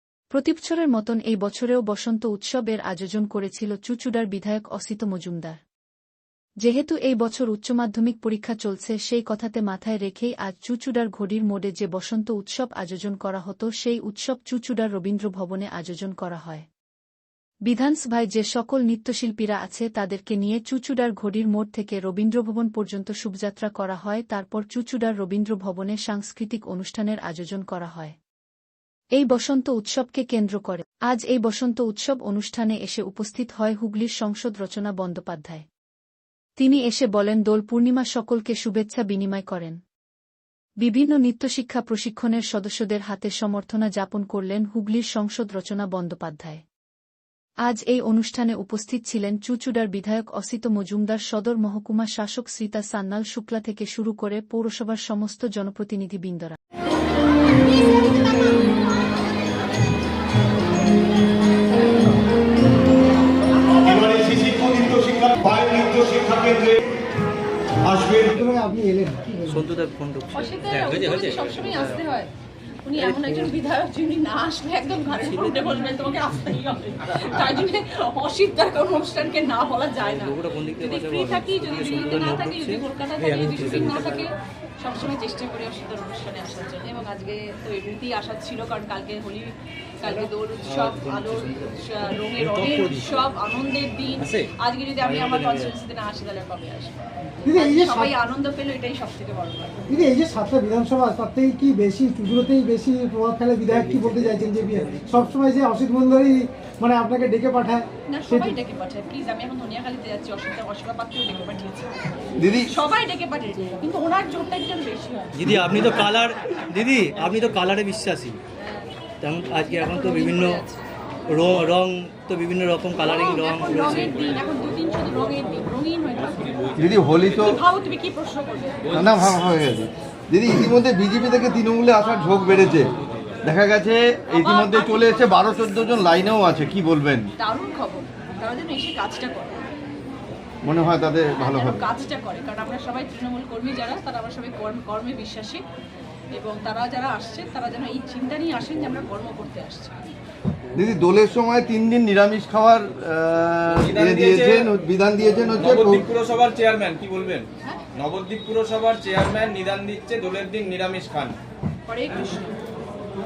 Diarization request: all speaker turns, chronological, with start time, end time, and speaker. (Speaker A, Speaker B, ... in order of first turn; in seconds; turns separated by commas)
Speaker A: 0.3-5.6, Speaker A: 6.6-16.7, Speaker A: 17.6-28.2, Speaker A: 29.1-35.7, Speaker A: 36.6-39.8, Speaker A: 40.8-46.6, Speaker A: 47.6-56.6, Speaker B: 63.6-64.2, Speaker C: 64.2-66.8, Speaker D: 68.2-69.6, Speaker E: 69.5-72.0, Speaker B: 70.3-72.3, Speaker F: 71.0-71.3, Speaker B: 72.8-96.9, Speaker E: 73.0-73.5, Speaker E: 75.2-75.8, Speaker E: 80.0-84.2, Speaker E: 90.7-91.7, Speaker E: 92.3-93.1, Speaker E: 95.0-95.7, Speaker D: 97.4-98.1, Speaker B: 97.5-99.8, Speaker D: 99.9-108.5, Speaker E: 103.7-105.2, Speaker B: 108.1-112.0, Speaker G: 112.4-112.7, Speaker B: 112.7-115.4, Speaker E: 115.3-118.4, Speaker G: 115.5-115.8, Speaker E: 119.2-120.6, Speaker B: 119.5-120.8, Speaker E: 121.3-124.2, Speaker B: 123.0-128.9, Speaker G: 126.8-127.6, Speaker G: 128.9-132.9, Speaker G: 133.4-137.3, Speaker B: 134.3-136.0, Speaker B: 137.4-139.7, Speaker G: 140.6-141.9, Speaker B: 141.4-145.6, Speaker B: 146.3-150.1, Speaker G: 150.8-156.1, Speaker F: 153.8-154.7, Speaker F: 155.6-161.3, Speaker B: 161.9-162.5